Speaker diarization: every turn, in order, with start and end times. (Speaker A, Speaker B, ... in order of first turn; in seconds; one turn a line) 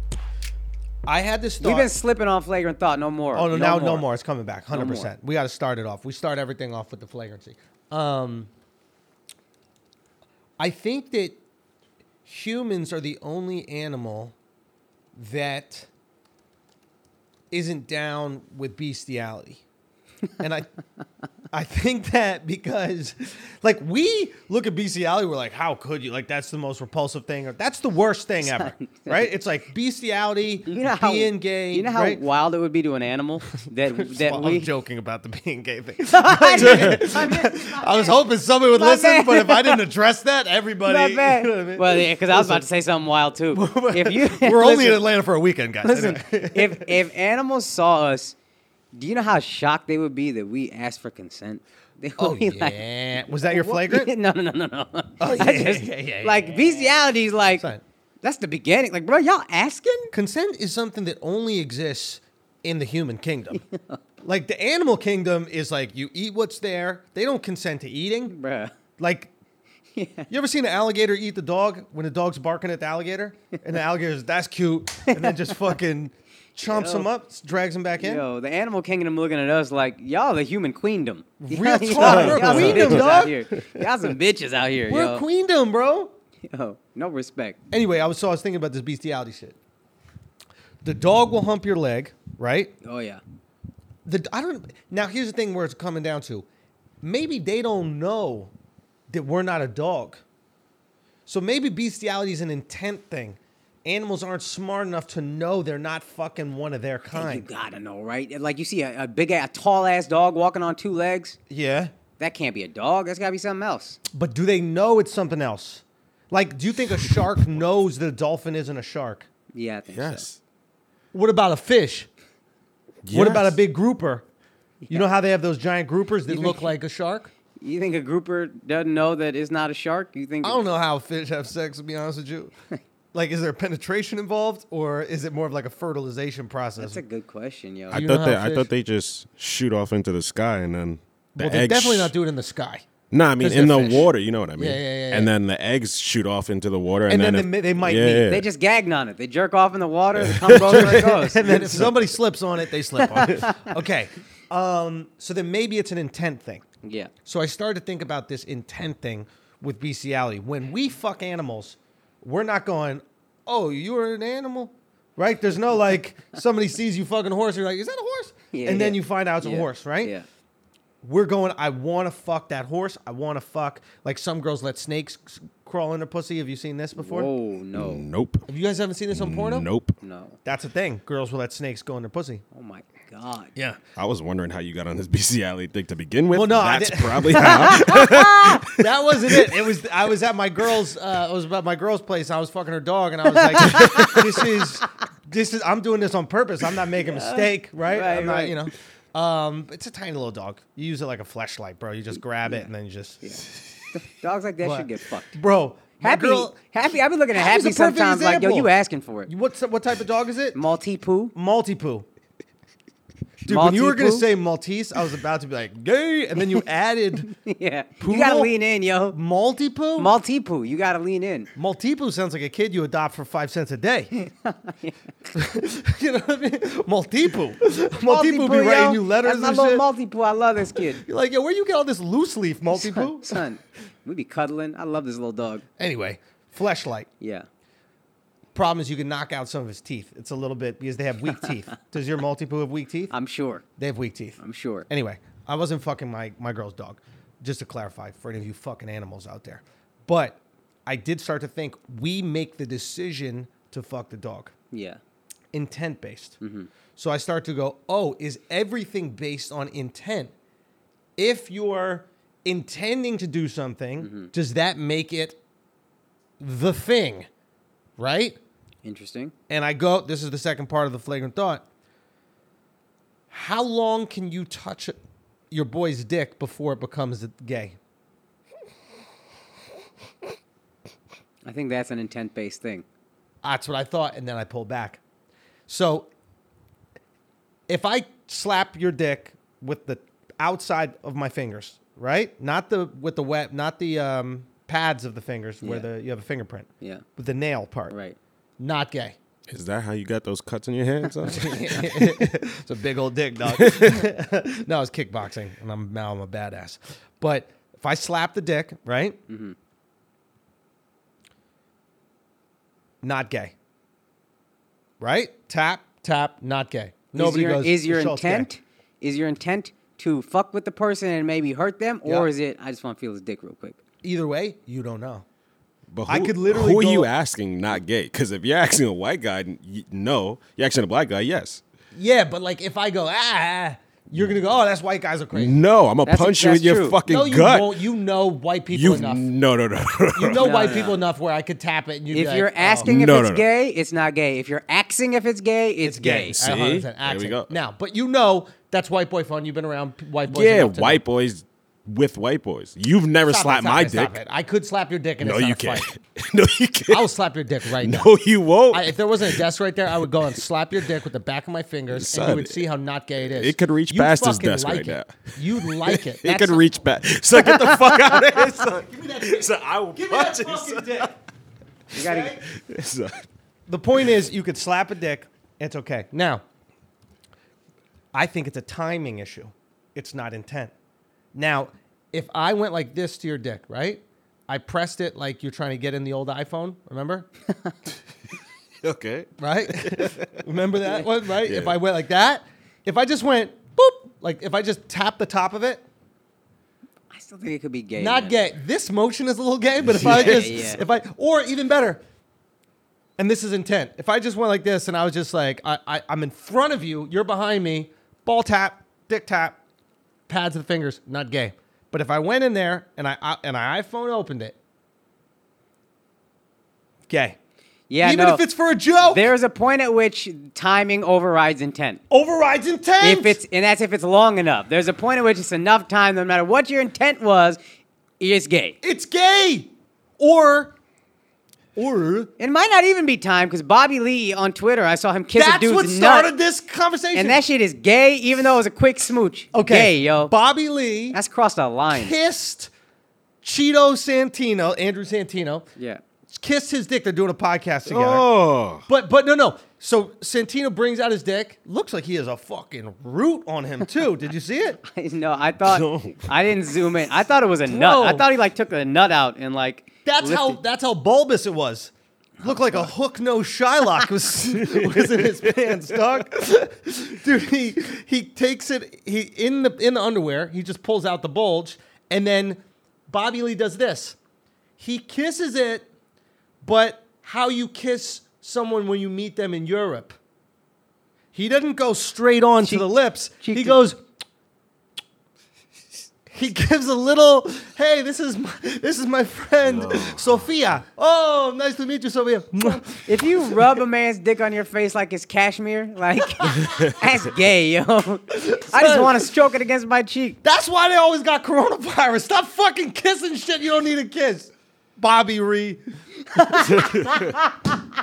Speaker A: 1.1-1.9
Speaker B: 1.6-4.1
Speaker A: 3.3-8.5
Speaker B: 4.7-5.1
Speaker A: 10.6-11.4
Speaker A: 12.2-14.3
Speaker A: 15.2-15.9
Speaker A: 17.5-19.6
Speaker A: 20.4-20.7
Speaker A: 21.5-32.2
Speaker B: 28.4-29.3
Speaker B: 30.6-34.7
Speaker A: 33.9-42.6
Speaker B: 36.0-38.2
Speaker C: 36.6-36.9
Speaker B: 38.7-39.8
Speaker B: 40.8-45.1
Speaker A: 43.5-46.9
Speaker B: 45.8-48.3
Speaker B: 48.9-57.6
Speaker A: 52.2-54.1
Speaker A: 55.2-57.0
Speaker A: 57.5-57.8
Speaker B: 58.2-60.1
Speaker A: 60.1-63.6
Speaker B: 63.5-64.0
Speaker A: 64.2-68.3
Speaker B: 68.3-68.7
Speaker A: 69.0-69.3
Speaker B: 70.0-70.3
Speaker A: 70.3-78.2
Speaker B: 75.1-75.6
Speaker B: 76.6-77.1
Speaker B: 78.0-85.2
Speaker A: 81.4-83.4
Speaker C: 82.0-83.3
Speaker A: 84.9-86.1
Speaker B: 86.4-87.6
Speaker A: 87.7-89.6
Speaker A: 90.8-92.7
Speaker B: 92.8-93.2
Speaker A: 94.0-96.5
Speaker A: 97.0-98.5
Speaker A: 99.1-100.2
Speaker A: 101.3-107.5
Speaker B: 107.1-111.4
Speaker A: 111.5-111.9
Speaker B: 112.2-114.0
Speaker A: 114.1-119.3
Speaker B: 119.5-120.2
Speaker C: 119.9-120.4
Speaker A: 121.1-122.1
Speaker C: 123.0-123.6
Speaker A: 123.1-124.2
Speaker A: 124.9-127.3
Speaker B: 126.3-126.7
Speaker B: 127.6-130.6
Speaker A: 130.4-132.5
Speaker A: 133.1-137.0
Speaker B: 136.8-138.0
Speaker A: 137.9-138.7
Speaker C: 137.9-142.1
Speaker A: 141.3-142.9
Speaker C: 143.1-148.4
Speaker A: 143.4-145.3
Speaker A: 147.1-148.3
Speaker B: 148.3-151.8
Speaker C: 150.2-151.9
Speaker A: 150.5-156.6
Speaker B: 153.1-153.6
Speaker B: 156.8-157.1
Speaker A: 157.2-170.1
Speaker B: 168.5-170.2
Speaker A: 171.0-177.3
Speaker B: 176.9-178.0
Speaker C: 177.7-178.4
Speaker A: 178.5-179.7
Speaker C: 179.1-179.9
Speaker B: 180.0-180.4
Speaker A: 180.4-182.4
Speaker B: 182.5-183.5
Speaker C: 184.0-189.7
Speaker A: 186.3-188.2
Speaker B: 187.6-188.5
Speaker A: 188.7-203.3
Speaker B: 193.3-194.4
Speaker B: 197.0-198.6
Speaker B: 203.2-205.4
Speaker A: 204.6-206.6
Speaker B: 206.0-209.3
Speaker A: 207.3-208.7
Speaker A: 209.3-210.6
Speaker B: 210.5-211.3
Speaker A: 211.3-212.1
Speaker A: 213.4-217.3
Speaker B: 213.5-214.3
Speaker B: 216.4-216.6
Speaker B: 217.3-219.2
Speaker A: 218.0-218.5
Speaker A: 219.1-220.1
Speaker B: 220.0-221.5
Speaker A: 221.6-224.1
Speaker B: 224.1-224.9
Speaker A: 225.3-229.9
Speaker B: 228.1-231.0
Speaker A: 231.0-233.4
Speaker B: 232.7-235.6
Speaker A: 235.8-237.1
Speaker B: 237.2-237.5
Speaker A: 238.5-243.1
Speaker B: 243.1-243.6
Speaker A: 243.8-254.5
Speaker B: 244.4-244.9
Speaker B: 254.7-255.0
Speaker A: 255.5-256.4
Speaker B: 256.4-256.7
Speaker A: 256.9-260.3
Speaker A: 261.2-265.4
Speaker B: 264.0-264.3
Speaker A: 266.4-267.3
Speaker A: 268.0-268.4
Speaker B: 268.8-269.3
Speaker A: 269.5-271.6
Speaker A: 273.3-275.0
Speaker A: 275.5-277.8
Speaker B: 281.4-282.8
Speaker A: 283.4-285.0
Speaker A: 285.7-286.1
Speaker A: 287.7-297.9
Speaker B: 295.6-295.9
Speaker B: 297.9-298.2
Speaker A: 298.6-299.1
Speaker C: 299.5-302.2
Speaker A: 301.2-309.2
Speaker C: 303.6-304.0
Speaker B: 309.3-309.5
Speaker A: 313.0-313.5
Speaker A: 315.0-318.5
Speaker B: 317.1-323.8
Speaker A: 324.0-325.2
Speaker C: 325.9-331.6
Speaker A: 326.1-327.1
Speaker A: 331.9-335.6
Speaker C: 335.3-337.8
Speaker B: 336.0-337.0
Speaker A: 337.1-339.3
Speaker C: 338.7-340.8
Speaker A: 340.1-342.9
Speaker B: 340.4-341.0
Speaker B: 342.1-346.4
Speaker C: 342.8-343.4
Speaker A: 345.8-351.0
Speaker C: 346.3-347.5
Speaker C: 350.3-354.1
Speaker A: 353.2-355.9
Speaker C: 355.2-357.1
Speaker A: 356.9-358.2
Speaker C: 357.7-359.4
Speaker A: 358.7-366.6
Speaker C: 361.9-362.6
Speaker C: 363.2-371.1
Speaker A: 368.9-371.1
Speaker B: 371.9-372.4
Speaker A: 371.9-372.4
Speaker C: 372.2-373.2
Speaker A: 373.7-376.4
Speaker A: 378.1-380.7
Speaker A: 381.3-387.3
Speaker C: 388.8-390.4
Speaker A: 389.4-395.8
Speaker C: 391.4-391.8
Speaker B: 397.1-398.4
Speaker A: 398.0-402.0
Speaker C: 399.8-400.5
Speaker B: 400.0-400.8
Speaker A: 403.2-409.6
Speaker A: 410.3-414.6
Speaker A: 417.1-417.4
Speaker B: 417.9-418.4
Speaker A: 418.0-419.3
Speaker B: 419.0-422.0
Speaker A: 422.1-423.4
Speaker B: 423.0-427.6
Speaker B: 428.2-428.8
Speaker A: 428.8-430.7
Speaker A: 431.8-432.3
Speaker B: 432.4-436.3
Speaker A: 435.3-437.4
Speaker B: 437.1-440.3
Speaker A: 439.5-441.2
Speaker B: 441.1-442.1
Speaker A: 441.9-442.7
Speaker A: 443.4-445.6
Speaker B: 445.8-446.0
Speaker A: 446.3-448.3
Speaker C: 447.8-448.8
Speaker A: 448.9-454.8
Speaker B: 454.9-460.6
Speaker C: 455.6-456.3
Speaker A: 457.6-458.2
Speaker A: 460.0-461.9
Speaker B: 462.4-462.9
Speaker A: 462.4-474.2
Speaker C: 464.6-465.8
Speaker A: 474.8-475.9
Speaker A: 476.6-480.1
Speaker A: 481.3-484.0
Speaker B: 482.6-483.8
Speaker A: 486.3-493.8
Speaker C: 489.6-490.4
Speaker B: 492.7-500.4
Speaker A: 498.3-499.3
Speaker A: 500.4-505.8
Speaker B: 506.4-507.4
Speaker A: 506.4-507.4